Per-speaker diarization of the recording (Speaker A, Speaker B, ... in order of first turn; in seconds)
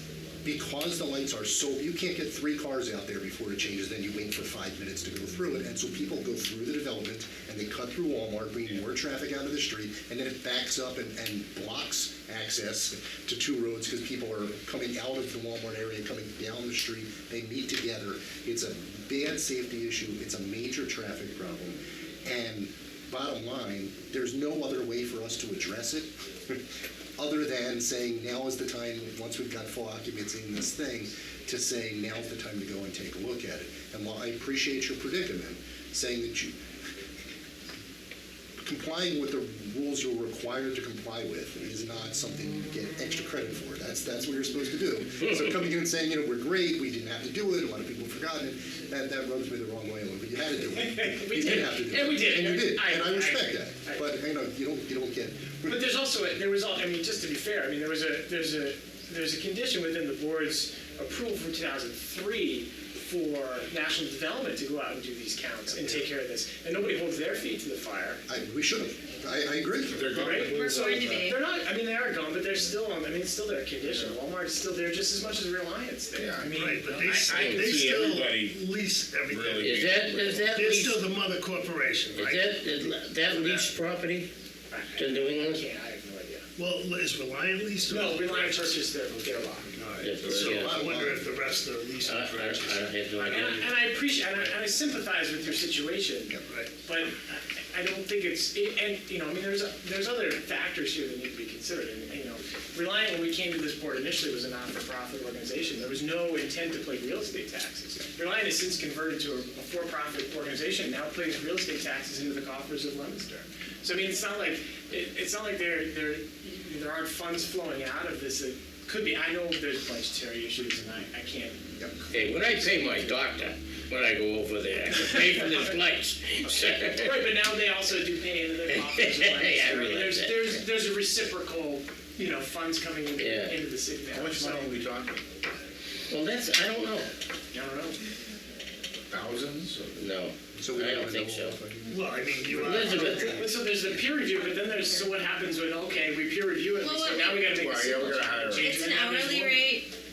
Speaker A: 0.4-26.6, 27.2-36.6, 38.6-55.8, 68.3-70.0, 90.3-91.2, 140.5-143.0
Speaker B: 50.7-54.0, 55.7-68.2, 70.1-77.2, 84.7-86.5, 87.9-89.7, 93.1-123.0, 126.9-134.8, 137.5-138.0, 143.3-149.6
Speaker C: 69.9-71.3, 73.9-74.1, 76.1-78.6, 79.3-80.5, 83.4-83.7, 90.1-90.6, 134.1-135.2, 139.1-140.0, 147.5-148.8
Speaker D: 70.5-71.4, 144.4-145.1, 146.8-147.5, 148.5-149.9
Speaker E: 76.5-79.8, 80.5-82.7, 86.6-88.8, 89.7-92.9, 141.9-143.6
Speaker F: 77.3-77.8, 79.6-81.0, 82.2-84.3, 85.0-85.6, 90.0-90.9, 92.0-93.8, 122.1-127.3, 128.8-130.6, 133.2-133.6, 136.1-137.1, 139.9-141.6, 142.6-143.4